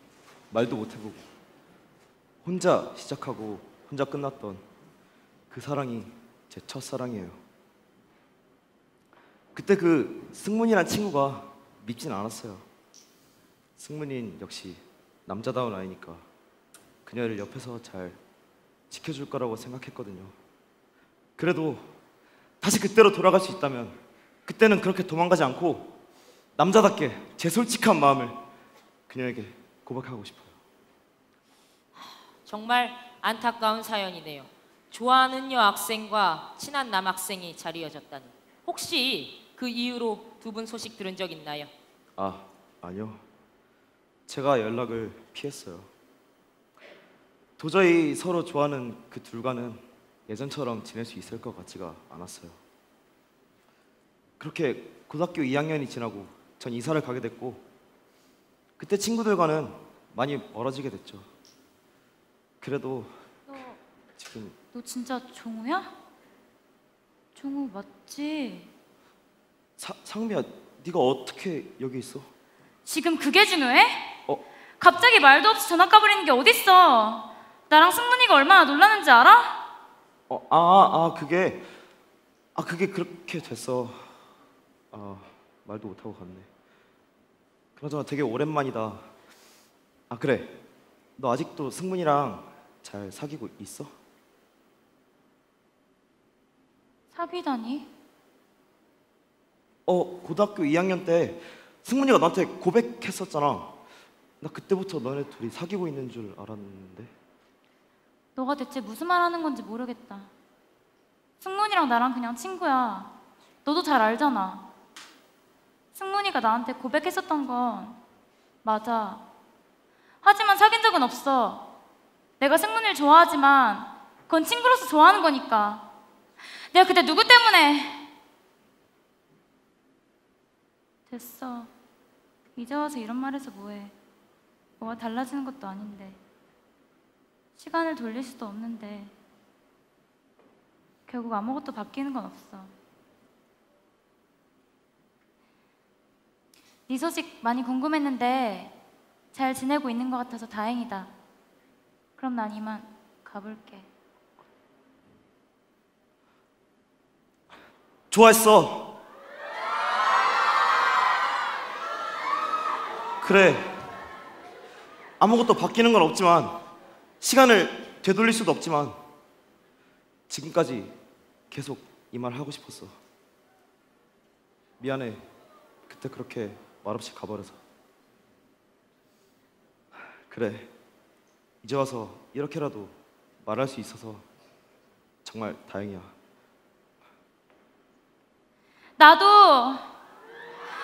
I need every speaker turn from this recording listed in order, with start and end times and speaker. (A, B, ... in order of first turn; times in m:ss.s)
0:00.5-0:01.3 A
0:02.4-0:04.6 A
0:05.5-0:07.4 A
0:09.5-0:12.6 A
0:13.8-0:16.3 A
0:17.0-0:18.2 A
0:18.9-0:20.3 A
0:21.4-0:21.9 A
0:22.6-0:25.9 A
0:26.6-0:28.4 A
0:29.1-0:30.6 A
0:32.4-0:41.7 B
0:42.2-0:43.2 A
0:44.3-0:45.9 A
0:47.6-0:52.6 A
0:54.4-0:57.6 A
0:58.8-1:01.3 A
1:02.6-1:03.1 A
1:03.5-1:03.8 C
1:04.2-1:04.6 A
1:04.7-1:05.9 C
1:07.3-1:08.7 C
1:09.8-1:12.3 A
1:12.8-1:14.1 C
1:14.8-1:19.6 C
1:20.3-1:21.7 A
1:22.5-1:24.2 A
1:24.9-1:26.5 A
1:27.8-1:29.1 A
1:30.1-1:30.6 A
1:31.2-1:33.9 A
1:37.1-1:37.9 C
1:39.9-1:43.8 A
1:44.4-1:47.1 A
1:48.4-1:50.3 C
1:51.4-1:54.7 C
1:55.9-1:58.0 C
1:58.6-1:59.2 C
2:00.2-2:01.7 C
2:02.4-2:05.9 C
2:06.7-2:08.0 C
2:11.1-2:11.7 C
2:12.6-2:13.9 C
2:14.8-2:16.2 C
2:17.6-2:19.1 C
2:21.1-2:22.7 C
2:26.9-2:28.7 C
2:29.3-2:31.1 C
2:32.2-2:33.9 C
2:38.1-2:39.0 A
2:43.2-2:43.8 A
2:45.2-2:46.6 A
2:47.2-2:49.0 A
2:50.3-2:51.0 A
2:51.5-2:53.0 A
2:54.8-2:55.2 A
2:55.9-2:57.6 A
3:00.3-3:00.7 A
3:01.6-3:04.2 A
3:05.2-3:06.1 A
3:09.0-3:09.8 C